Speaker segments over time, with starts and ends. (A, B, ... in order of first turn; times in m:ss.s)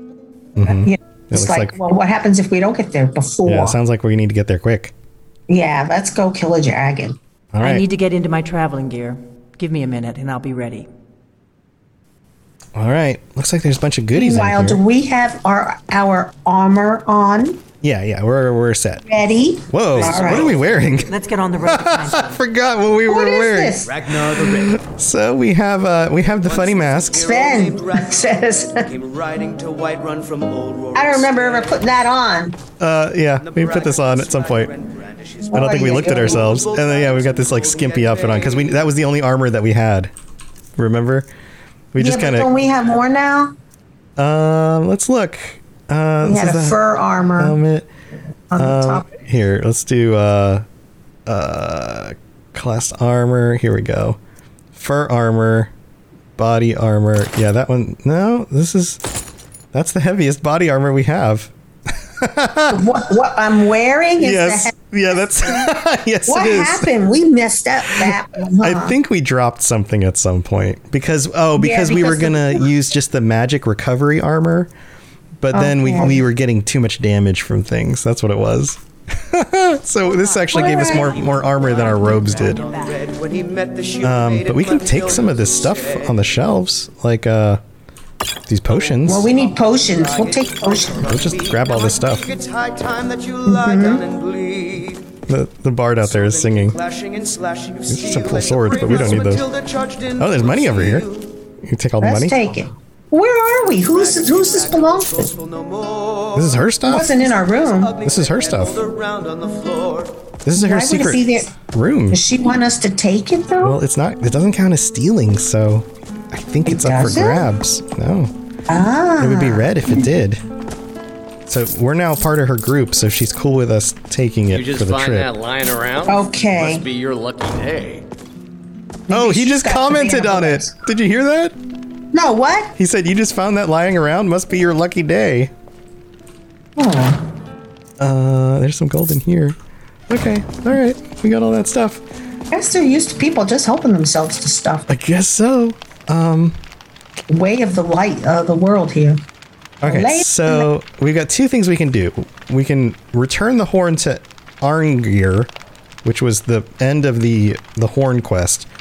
0:00.6-0:01.7 A
0:00.6-0:03.8 B
0:03.4-0:04.9 A
0:05.5-0:07.2 B
0:07.5-0:07.8 A
0:07.6-0:10.9 C
0:12.7-0:14.8 A
0:14.1-0:17.6 B
0:17.8-0:19.0 A
0:19.0-0:20.5 B
0:19.7-0:23.8 A
0:20.3-0:22.4 C
0:23.1-0:23.9 B
0:23.8-0:24.8 D
0:24.5-0:27.3 A
0:26.4-0:31.8 D
0:27.2-0:28.8 B
0:30.9-0:32.6 B
0:32.8-0:34.7 A
0:33.4-0:38.8 D
0:35.5-0:36.5 B
0:35.5-0:40.1 A
0:40.8-0:41.3 A
0:41.9-0:42.5 A
0:42.0-0:43.5 B
0:44.2-0:46.8 A
0:46.2-0:47.5 B
0:47.4-0:47.9 A
0:48.5-0:49.1 B
0:48.6-0:50.6 A
0:51.2-0:54.2 A
0:54.7-0:55.7 A
0:56.4-0:59.0 A
0:59.7-1:01.5 A
1:02.2-1:02.8 A
1:02.7-1:04.7 B
1:04.2-1:06.9 A
1:06.3-1:08.9 B
1:07.9-1:14.7 A
1:11.6-1:12.6 B
1:15.4-1:22.6 A
1:15.5-1:16.2 B
1:20.0-1:23.0 C
1:20.5-1:21.2 B
1:21.3-1:26.2 D
1:24.0-1:27.6 A
1:28.5-1:29.3 A
1:28.7-1:35.1 D
1:29.0-1:31.1 B
1:31.0-1:32.3 A
1:33.4-1:34.0 B
1:35.3-1:36.8 A
1:36.0-1:41.3 D
1:37.9-1:39.4 A
1:40.2-1:41.0 A
1:41.6-1:42.5 A
1:42.0-1:45.3 B
1:43.7-1:46.6 D
1:46.3-1:47.1 A
1:46.9-1:47.9 B
1:47.3-1:50.1 D
1:48.0-1:48.8 A
1:50.4-1:52.2 A
1:50.5-1:51.5 B
1:52.1-1:53.8 B
1:53.6-1:58.3 A
1:56.6-1:57.4 B
1:58.7-2:00.0 B
1:59.2-2:00.4 A
2:01.5-2:05.3 A
2:04.5-2:08.0 E
2:06.0-2:06.8 B
2:09.1-2:10.7 B
2:09.1-2:11.6 A
2:12.1-2:12.7 B
2:12.8-2:15.5 A
2:16.8-2:17.2 B
2:18.0-2:19.6 A
2:20.1-2:22.0 A
2:22.5-2:24.9 B
2:24.9-2:26.6 A
2:27.3-2:29.2 B
2:29.8-2:35.5 A
2:29.8-2:30.7 B
2:36.0-2:38.7 A